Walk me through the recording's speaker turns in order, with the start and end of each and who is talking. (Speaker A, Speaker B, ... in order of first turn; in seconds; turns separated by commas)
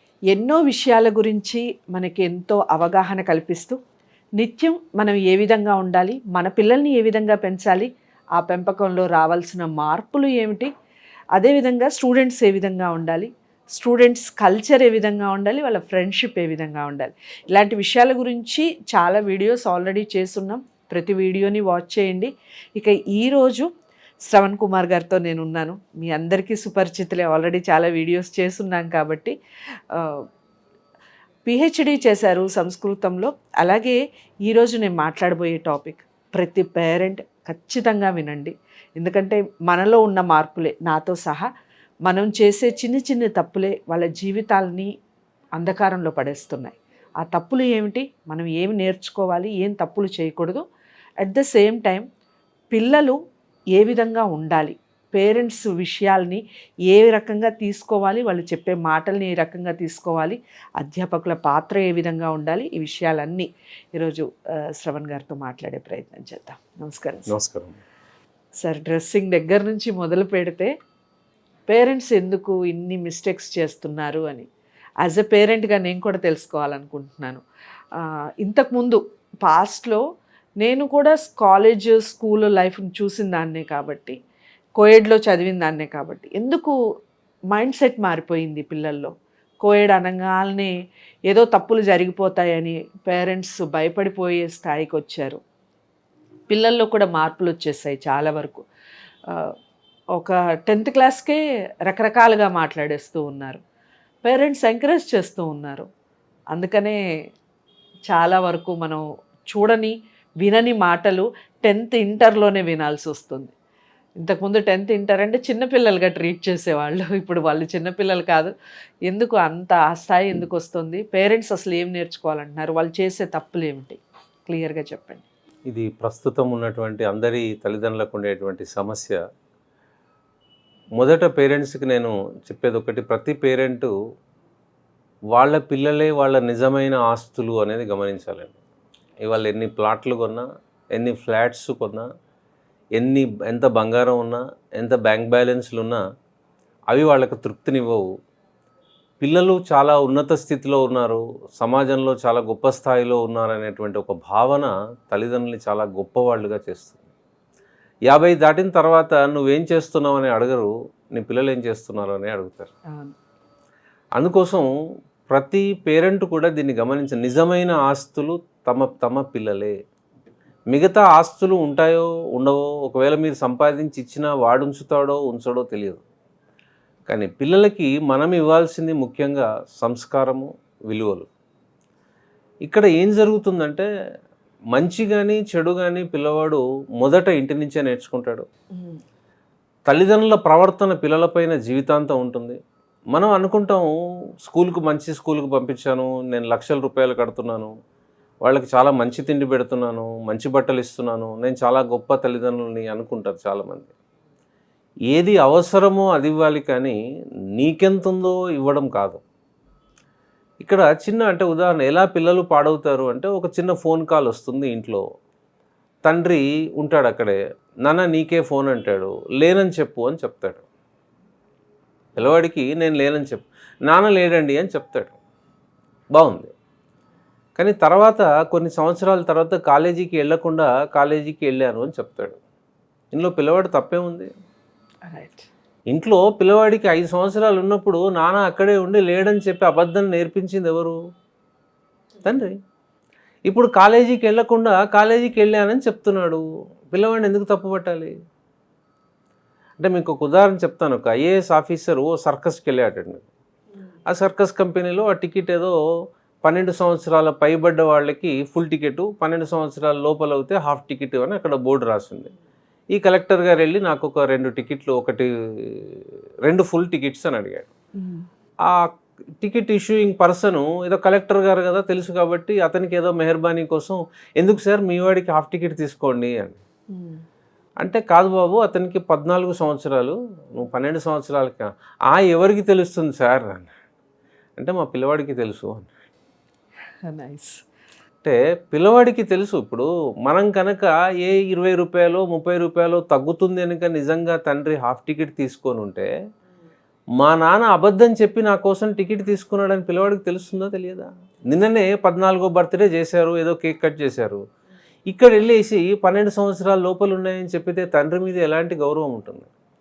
Speaker A: 0.3-3.8, Speaker A: 4.4-10.7, Speaker A: 11.3-23.7, Speaker A: 24.3-29.3, Speaker A: 29.9-30.2, Speaker A: 31.4-41.5, Speaker A: 42.0-44.9, Speaker A: 45.6-50.6, Speaker A: 51.2-52.0, Speaker A: 52.7-53.2, Speaker A: 53.7-67.3, Speaker B: 67.3-67.8, Speaker A: 68.6-70.7, Speaker A: 71.7-74.5, Speaker A: 75.0-77.4, Speaker A: 78.0-80.0, Speaker A: 80.6-84.2, Speaker A: 84.8-86.8, Speaker A: 87.5-90.7, Speaker A: 91.3-95.4, Speaker A: 96.5-98.6, Speaker A: 99.3-99.5, Speaker A: 100.2-103.6, Speaker A: 104.2-105.9, Speaker A: 106.5-107.0, Speaker A: 108.1-113.5, Speaker A: 114.2-118.5, Speaker A: 119.1-125.2, Speaker B: 125.7-129.2, Speaker B: 131.0-133.9, Speaker B: 135.3-138.6, Speaker B: 139.2-142.1, Speaker B: 143.0-146.0, Speaker B: 146.9-148.1, Speaker B: 149.2-157.0, Speaker B: 158.1-162.7, Speaker B: 164.2-164.7, Speaker B: 165.3-169.7, Speaker B: 170.7-176.0, Speaker B: 177.1-181.3, Speaker B: 182.6-183.9, Speaker B: 184.7-188.4, Speaker A: 188.7-189.0, Speaker B: 189.9-192.6, Speaker B: 193.1-197.7, Speaker B: 198.4-203.9, Speaker B: 205.1-207.0, Speaker B: 207.6-209.2, Speaker B: 210.6-215.0, Speaker B: 216.1-220.6, Speaker B: 222.2-225.2, Speaker B: 226.1-226.5, Speaker B: 227.6-232.4, Speaker B: 233.1-234.3, Speaker A: 235.1-235.5, Speaker B: 235.9-240.9, Speaker B: 242.2-242.6, Speaker B: 243.5-248.1, Speaker B: 249.8-253.3, Speaker B: 254.1-255.8, Speaker B: 256.4-262.3, Speaker B: 262.9-267.7, Speaker A: 268.0-268.2, Speaker B: 269.4-276.6, Speaker A: 276.9-277.2, Speaker B: 277.8-283.7, Speaker B: 284.6-285.9, Speaker A: 287.1-287.6, Speaker B: 288.2-296.1, Speaker B: 297.2-304.4, Speaker B: 305.1-309.5